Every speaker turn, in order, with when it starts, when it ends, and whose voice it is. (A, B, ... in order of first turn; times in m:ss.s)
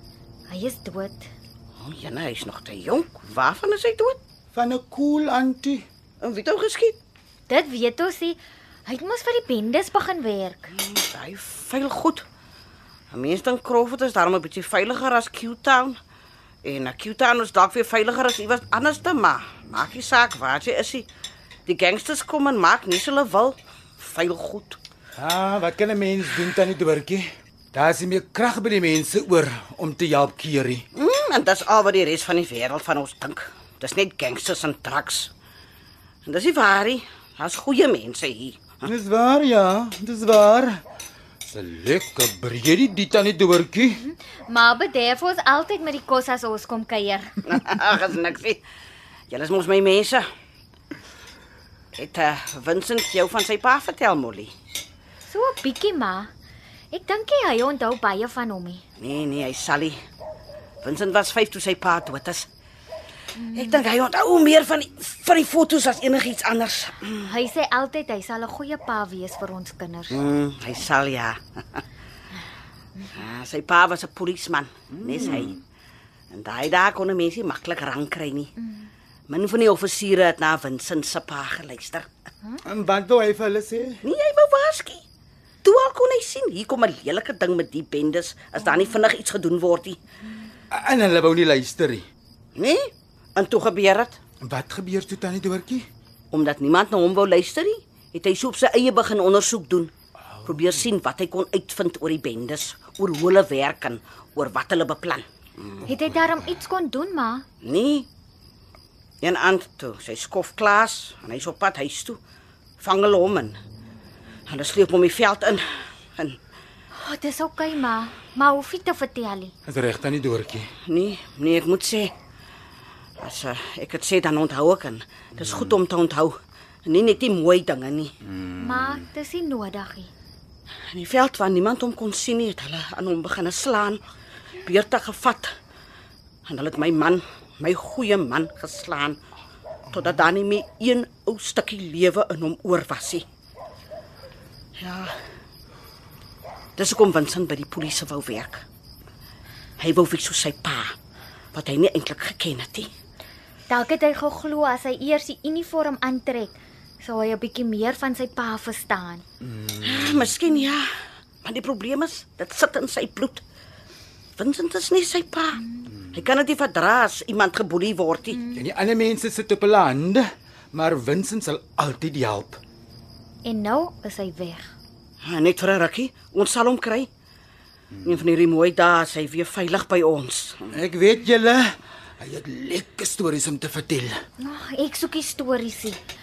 0:00.5-0:01.3 A
0:01.8-0:04.2 B
0:04.5-0:05.8 C
0:06.2-0:07.0 B
0:07.5-0:10.7 A
0:10.7-0:12.2 B
0:13.1-0:16.0 B
0:16.6-0:21.1 B
0:21.7-0:24.8 B
0:25.2-0:30.8 C
0:31.0-0:35.3 B
0:36.3-0:38.8 B
0:38.8-0:40.8 C
0:41.5-0:44.0 C
0:44.0-0:47.3 A
0:47.5-0:48.6 B
0:49.3-0:50.2 B
0:52.0-0:54.5 B
0:55.3-0:56.3 A
0:56.9-0:58.8 A
0:59.0-1:00.0 B
1:00.8-1:02.5 B
1:03.5-1:07.3 B
1:07.2-1:10.2 A
1:10.1-1:11.8 B
1:13.1-1:15.6 B
1:15.0-1:15.5 C
1:16.3-1:18.5 B
1:19.3-1:22.1 B
1:22.6-1:24.0 C
1:24.0-1:25.0 B
1:25.6-1:30.0 B
1:30.7-1:32.1 C
1:32.6-1:34.2 B
1:34.4-1:35.9 C
1:36.3-1:39.9 B
1:40.4-1:45.8 B
1:45.9-1:47.4 A
1:47.6-1:48.1 B
1:49.2-1:52.2 B
1:52.8-1:53.6 B
1:54.5-1:55.7 B
1:57.0-1:59.5 A
1:59.7-2:00.7 C
2:00.9-2:02.1 B
2:03.2-2:08.1 B
2:05.4-2:05.7 C
2:08.3-2:09.0 C
2:08.6-2:10.1 A
2:10.9-2:14.0 B
2:14.6-2:15.5 B
2:16.4-2:19.2 B
2:19.9-2:23.2 B
2:24.8-2:25.1 B
2:26.8-2:28.6 B
2:29.8-2:31.0 B
2:31.5-2:32.9 B
2:33.7-2:39.2 A
2:39.8-2:40.9 B
2:41.4-2:43.4 B
2:44.4-2:48.4 B
2:48.5-2:52.6 C
2:53.4-2:54.7 A
2:55.2-2:57.1 B
2:58.0-3:00.8 B
3:00.7-3:04.2 C
3:04.4-3:06.0 A